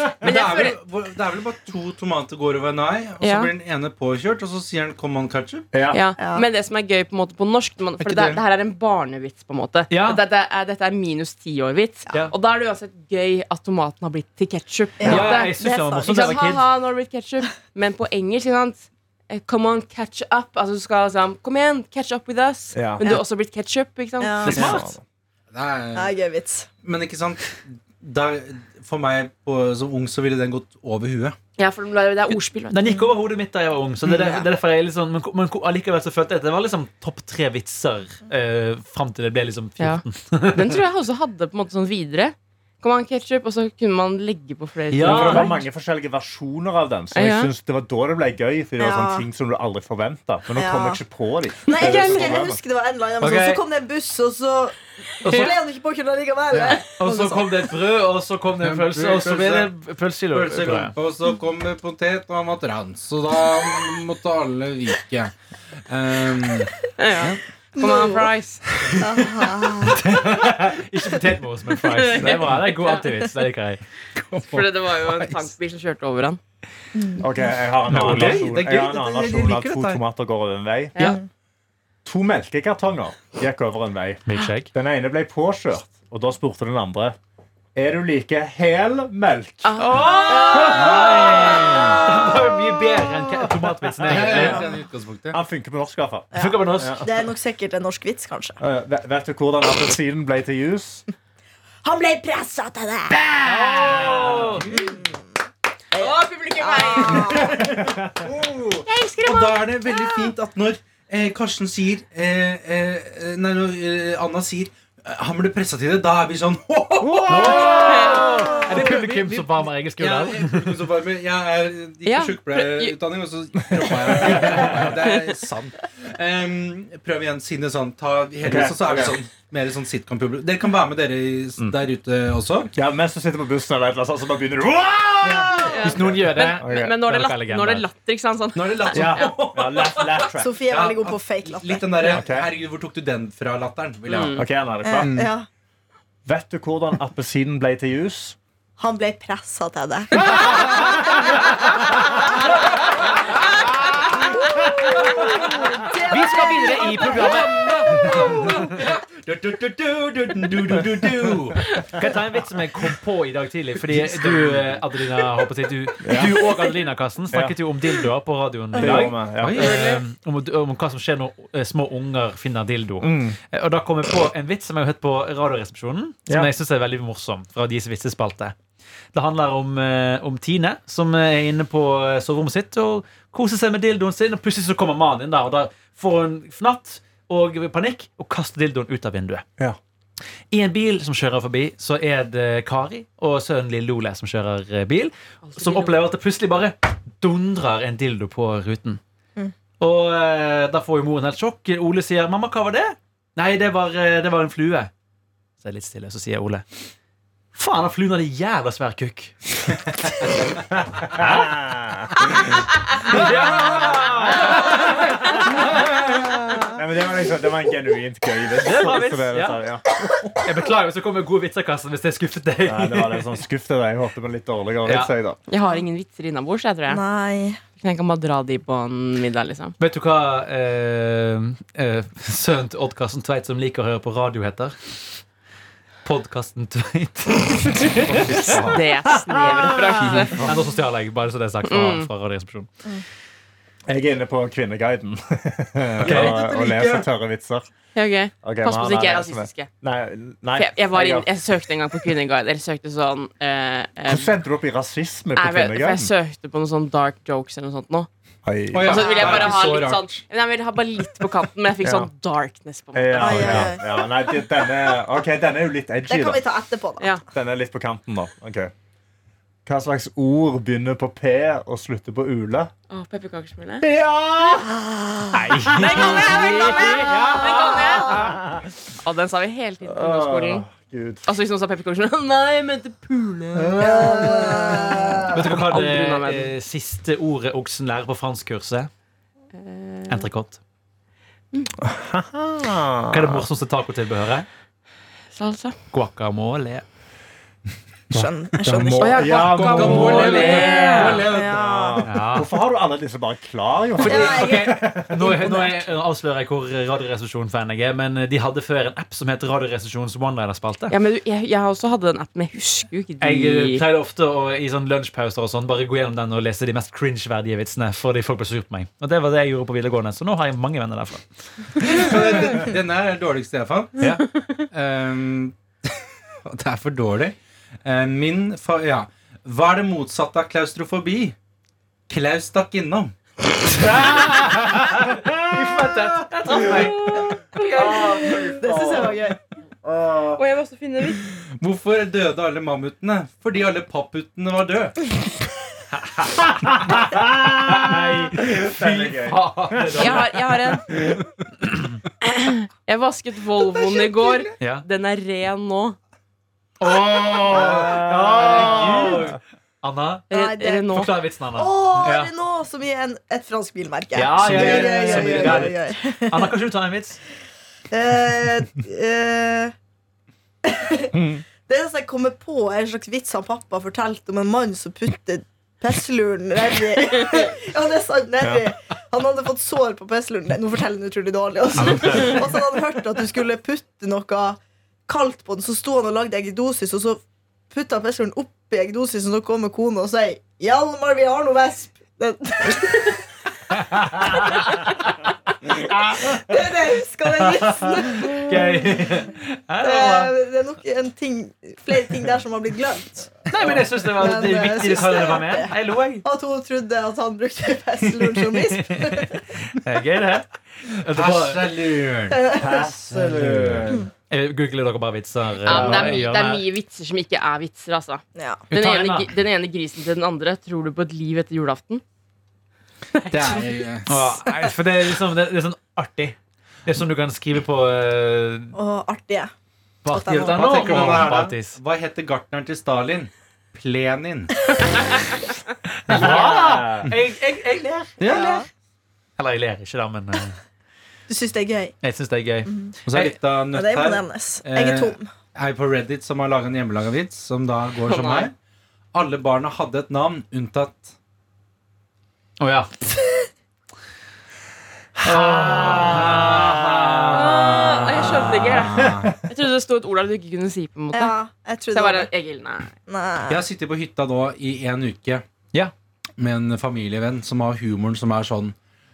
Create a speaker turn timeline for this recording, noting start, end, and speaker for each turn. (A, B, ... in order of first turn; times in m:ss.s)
0:00.2-0:05.7 A
0:00.2-0:00.8 B
0:03.2-0:03.5 B
0:05.7-0:06.0 C
0:05.9-0:24.6 B
0:06.2-0:06.4 D
0:08.0-0:08.4 A
0:09.9-0:10.2 E
0:15.0-0:16.3 D
0:15.0-0:16.7 E
0:22.7-0:23.0 C
0:24.2-0:24.8 D
0:24.4-0:24.9 E
0:24.5-0:25.0 C
0:25.5-0:26.1 A
0:25.9-0:26.7 D
0:26.8-0:31.4 A
0:31.6-0:32.9 B
0:32.7-0:40.8 E
0:39.8-0:45.6 B
0:44.9-0:45.5 E
0:45.0-0:52.6 C
0:47.1-0:47.5 B
0:48.8-0:49.2 D
0:50.5-0:51.0 D
0:51.6-0:52.4 B
0:51.6-0:57.6 D
0:53.2-0:53.6 E
0:55.2-0:55.6 E
0:55.3-0:55.5 B
0:56.5-0:56.8 A
0:57.0-1:00.9 E
0:58.6-0:59.7 A
1:00.3-1:05.3 A
1:05.9-1:07.4 A
1:07.0-1:08.6 B
1:07.8-1:08.3 D
1:08.8-1:09.2 A
1:09.0-1:10.0 D
1:09.8-1:13.8 E
1:11.8-1:13.1 B
1:14.1-1:15.5 A
1:14.5-1:16.4 B
1:17.0-1:17.2 D
1:17.2-1:21.0 C
1:17.9-1:18.5 E
1:17.9-1:20.0 A
1:22.0-1:27.2 C
1:24.3-1:24.7 E
1:27.8-1:29.8 C
1:29.6-1:31.5 B
1:29.9-1:34.6 E
1:30.4-1:31.4 D
1:30.5-1:33.6 C
1:30.7-1:32.0 A
1:34.0-1:35.4 A
1:34.1-1:34.8 D
1:35.3-1:37.1 C
1:36.3-1:37.0 E
1:36.3-1:38.6 D
1:38.6-1:41.0 C
1:41.8-1:43.2 D
1:43.1-1:44.8 C
1:43.4-1:44.7 E
1:44.5-1:44.9 A
1:44.7-1:45.2 D
1:45.9-1:47.7 B
1:45.9-1:47.8 D
1:47.3-1:48.8 C
1:48.8-1:50.1 B
1:49.2-2:12.7 A
1:57.0-1:58.1 C
1:57.2-2:00.9 E
1:57.5-1:58.5 B
2:02.0-2:03.0 B
2:03.8-2:04.9 C
2:08.4-2:09.2 C
2:12.8-2:16.9 C
2:15.2-2:15.7 A
2:15.6-2:20.2 B
2:15.8-2:17.8 E
2:18.5-2:19.9 A
2:18.9-2:20.6 C
2:20.4-2:22.1 D
2:20.7-2:24.4 A
2:22.1-2:22.5 C
2:24.1-2:24.4 B
2:24.4-2:25.3 C
2:24.8-2:25.5 D
2:25.0-2:25.3 A
2:26.2-2:28.4 C
2:28.8-2:31.0 D
2:30.3-2:30.8 C
2:34.6-2:38.6 D
2:35.0-2:35.5 C
2:36.0-2:38.5 E
2:37.2-2:41.9 A
2:41.9-2:58.5 E
2:43.8-2:44.8 A
2:46.0-2:46.4 C
2:48.8-2:49.6 C
2:49.4-2:49.8 A
2:49.6-2:50.0 B
2:53.0-2:53.4 C
2:59.1-3:09.4 E
3:10.5-3:19.0 E
3:15.4-3:16.0 B
3:19.8-3:24.9 E
3:25.6-3:26.6 E
3:27.5-3:30.3 E
3:30.7-3:32.5 C
3:33.0-3:35.8 E
3:33.2-3:35.6 C
3:36.6-3:40.3 C
3:38.6-3:39.6 E
3:40.4-3:43.3 E
3:42.6-3:45.4 C
3:44.8-3:45.1 E
3:45.5-3:47.0 B
3:46.9-3:47.6 D
3:47.8-3:49.7 B
3:49.8-3:55.0 E
3:56.0-3:58.7 E
3:58.0-3:58.8 A
3:58.6-4:00.4 B
3:59.3-4:00.3 C
4:00.3-4:02.7 E
4:01.6-4:02.1 B
4:03.9-4:07.7 C
4:06.0-4:06.4 E
4:06.0-4:07.1 A
4:07.9-4:09.7 B
4:08.4-4:11.3 C
4:10.6-4:14.3 B
4:14.1-4:16.1 C
4:15.4-4:18.1 B
4:18.4-4:19.6 C
4:18.7-4:20.2 A
4:18.8-4:23.7 B
4:21.8-4:22.1 C
4:22.9-4:26.4 C
4:23.1-4:24.4 D
4:26.1-4:27.2 D
4:27.3-4:28.7 C
4:29.7-4:32.7 C
4:32.9-4:33.8 B
4:33.8-4:34.8 C
4:34.8-4:35.4 D
4:35.3-4:36.4 C
4:35.3-4:37.8 E
4:35.7-4:38.3 B
4:35.9-4:38.2 D
4:37.1-4:37.4 C
4:38.1-4:38.7 C
4:39.0-4:40.7 B
4:39.8-4:41.3 C
4:41.2-4:46.5 B
4:43.5-4:45.6 C
4:43.8-4:45.2 D
4:45.3-4:48.9 E
4:49.5-4:50.2 B
4:50.1-4:50.6 E
4:51.8-4:53.5 C
4:53.1-4:54.5 E
4:55.3-4:55.8 B
4:55.9-4:56.8 E
4:58.1-4:59.4 D
4:58.2-5:05.3 C
4:58.6-5:01.6 A
4:59.0-5:01.3 B
5:00.2-5:01.3 E
5:01.2-5:02.1 D
5:02.0-5:02.5 E
5:04.0-5:10.9 E
5:04.0-5:05.9 D
5:10.9-5:13.8 B
5:13.2-5:21.9 E
5:21.8-5:25.6 A
5:24.0-5:24.3 E
5:26.4-5:31.3 A
5:32.1-5:33.1 A
5:33.8-5:39.2 C
5:35.4-5:37.3 E
5:37.5-5:39.0 B
5:38.6-5:39.4 D
5:39.8-5:40.4 C
5:40.3-5:41.3 B
5:41.6-5:45.0 A
5:46.3-5:50.2 C
5:47.7-5:50.4 E
5:49.9-5:51.0 B
5:51.6-5:52.0 E
5:52.2-5:56.0 B
5:54.6-5:54.8 E
5:56.8-6:00.3 E
5:57.5-5:59.4 C
6:00.3-6:01.1 B
6:00.3-6:06.6 D
6:00.9-6:02.3 E
6:04.2-6:07.2 E
6:04.4-6:05.7 A
6:07.9-6:09.7 D
6:10.6-6:33.2 D
6:11.1-6:11.4 C
6:18.4-6:18.7 C
6:21.8-6:22.5 E
6:34.2-6:34.9 D
6:35.9-6:36.4 E
6:36.2-6:39.1 D
6:38.1-6:40.3 E
6:39.8-6:43.4 D
6:43.5-6:46.2 E
6:44.0-6:49.4 D
6:48.2-6:51.8 E
6:51.1-6:52.6 A
6:52.3-6:52.9 D
6:52.6-6:54.1 C
6:53.1-6:53.9 A
6:54.3-6:56.6 E
6:55.6-7:02.0 B
6:55.7-6:56.2 A
6:58.4-6:58.6 D
6:58.7-6:59.3 E
7:03.1-7:03.8 B
7:03.3-7:04.3 A
7:04.1-7:08.8 E
7:08.7-7:09.5 D
7:10.0-7:11.8 E
7:10.1-7:11.3 D
7:10.4-7:14.5 A
7:16.1-7:18.2 E
7:16.1-7:17.1 C
7:16.1-7:16.4 A
7:18.2-7:18.6 A
7:18.3-7:18.6 D
7:19.4-7:20.6 E
7:21.3-7:21.9 D
7:22.0-7:23.3 E
7:22.7-7:22.9 D
7:23.0-7:28.5 A
7:23.7-7:25.3 D
7:28.0-7:28.5 B
7:29.1-7:31.1 A
7:32.6-7:32.9 E
7:35.2-7:37.9 C
7:35.2-7:38.0 E
7:36.0-7:39.3 A
7:37.3-7:41.3 B
7:41.1-7:42.3 D
7:41.9-7:42.9 B
7:43.1-7:43.6 D
7:43.5-7:45.4 A
7:46.4-7:48.7 A